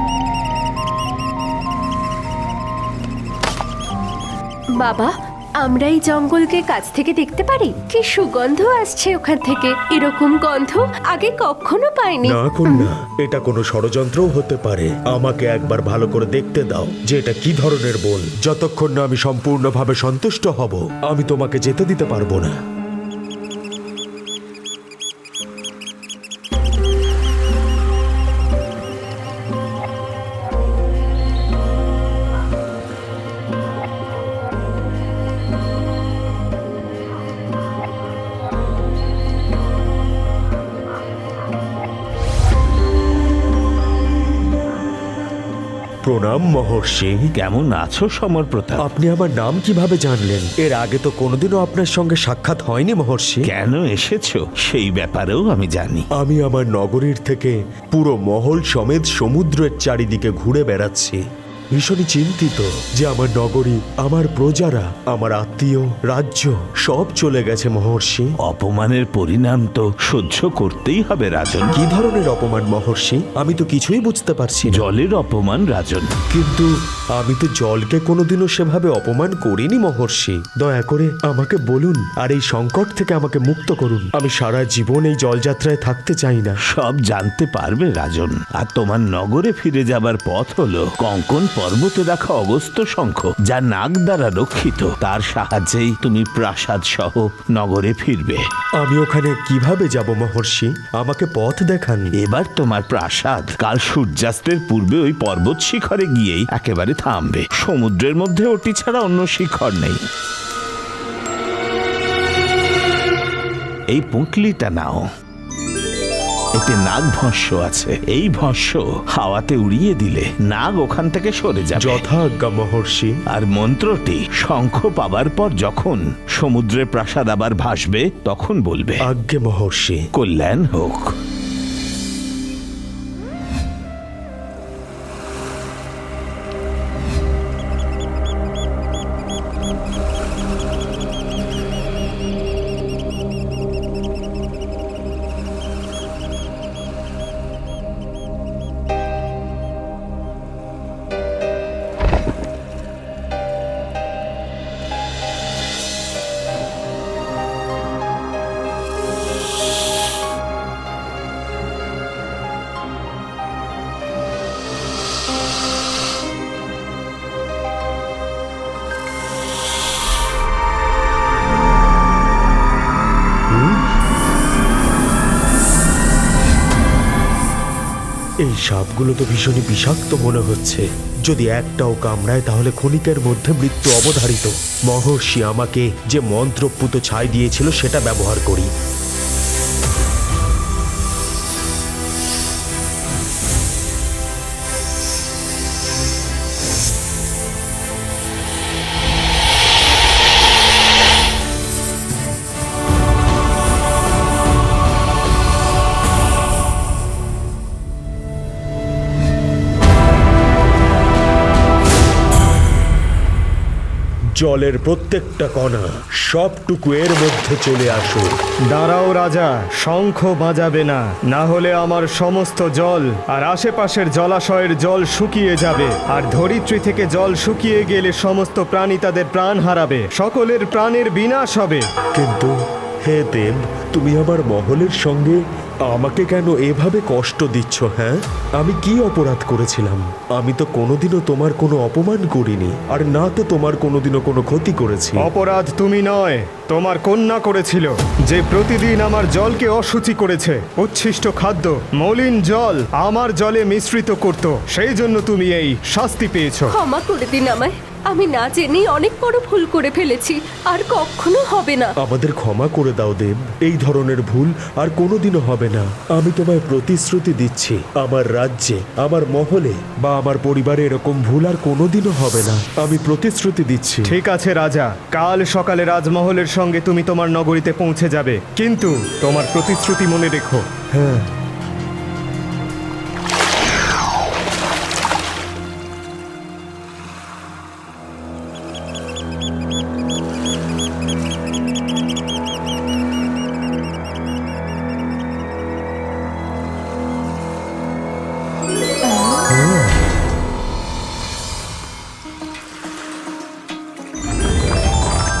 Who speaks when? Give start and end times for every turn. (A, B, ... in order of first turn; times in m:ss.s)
0:04.8-0:12.9 A
0:12.2-0:22.5 B
0:46.0-0:47.2 B
0:47.4-0:48.8 C
0:48.8-0:53.4 B
0:53.5-0:56.1 C
0:56.2-1:01.2 B
1:01.7-1:08.3 B
1:08.4-1:11.7 C
1:11.7-1:14.8 B
1:14.7-1:16.1 C
1:16.3-1:26.6 B
1:26.7-1:38.4 C
1:38.8-1:42.1 B
1:42.2-1:50.0 C
1:53.9-1:55.0 C
1:56.6-2:02.0 C
2:01.8-2:03.1 B
2:03.3-2:09.0 C
2:09.0-2:10.0 B
2:10.1-2:11.1 C
2:53.5-2:53.8 B
2:58.4-3:08.7 B
3:34.4-3:38.3 B
3:38.7-3:51.8 D
3:52.2-3:52.5 B
3:53.0-4:05.3 B
4:05.2-4:16.7 D
4:16.7-4:21.9 A
4:22.0-4:34.1 B
4:34.1-4:40.6 D
4:40.9-4:41.3 B
4:59.5-4:59.9 B